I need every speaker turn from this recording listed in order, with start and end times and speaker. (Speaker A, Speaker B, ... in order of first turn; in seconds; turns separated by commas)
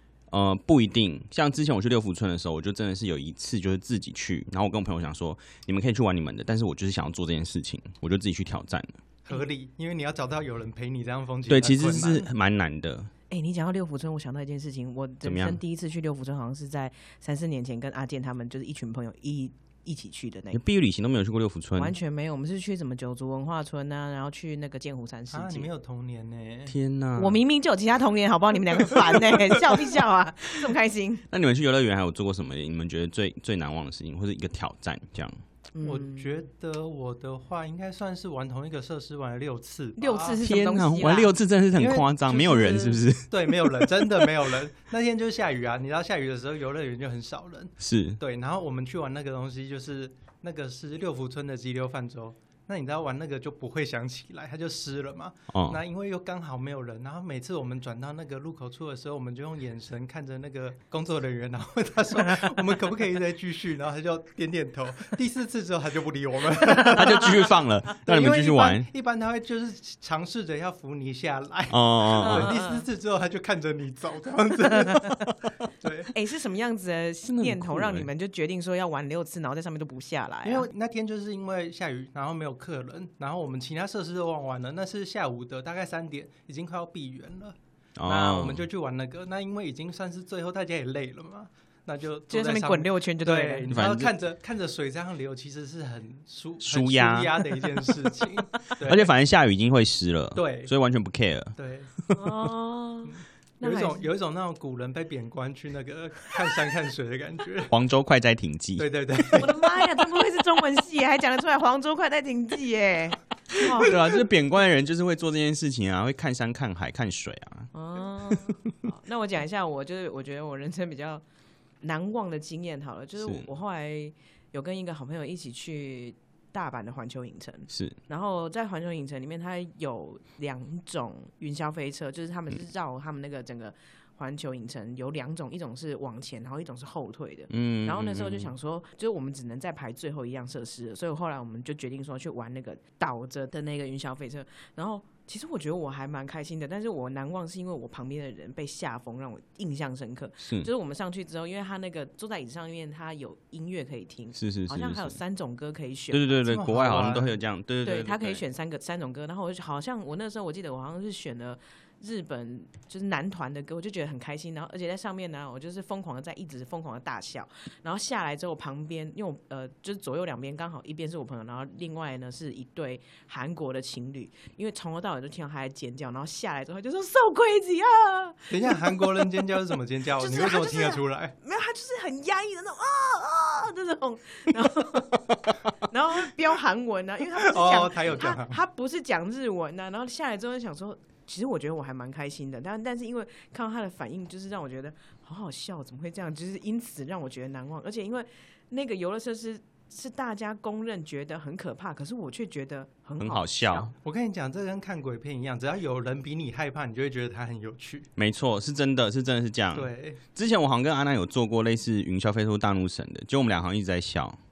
Speaker A: 0.3-9.0, Speaker B: 9.2-12.3, Speaker A: 11.5-13.1, Speaker C: 13.3-20.6, Speaker A: 15.2-15.6, Speaker A: 20.5-21.9, Speaker C: 21.8-25.7, Speaker B: 25.3-26.8, Speaker A: 26.7-27.4, Speaker C: 27.1-31.2, Speaker A: 31.3-35.4, Speaker C: 35.7-36.4, Speaker B: 35.8-40.4, Speaker C: 40.0-41.3, Speaker A: 40.4-44.2, Speaker B: 41.8-75.2, Speaker A: 47.8-48.2, Speaker A: 55.5-55.8, Speaker A: 66.8-68.9, Speaker A: 71.7-72.5, Speaker C: 72.2-72.9, Speaker C: 74.7-75.1, Speaker B: 75.8-76.1, Speaker C: 76.1-80.7, Speaker A: 77.3-78.1, Speaker B: 80.4-99.1, Speaker A: 88.0-88.6, Speaker C: 92.3-93.7, Speaker A: 93.7-94.1, Speaker A: 96.6-97.3, Speaker A: 98.8-101.5, Speaker B: 100.3-100.7, Speaker B: 101.5-101.9, Speaker C: 102.1-104.1, Speaker B: 103.6-107.7, Speaker A: 107.7-108.9, Speaker B: 108.8-109.5, Speaker C: 109.3-114.0, Speaker A: 113.5-117.7, Speaker C: 117.7-121.2, Speaker C: 121.8-156.6, Speaker A: 123.2-123.5, Speaker A: 127.7-128.0, Speaker A: 137.5-138.5, Speaker A: 150.4-150.7, Speaker A: 154.3-155.2, Speaker A: 156.1-158.4, Speaker B: 156.4-157.3, Speaker C: 157.8-179.2, Speaker B: 178.5-181.3, Speaker C: 180.2-203.9, Speaker B: 187.4-188.6, Speaker A: 203.2-203.9, Speaker B: 204.0-208.1, Speaker A: 208.2-214.4, Speaker B: 209.7-210.2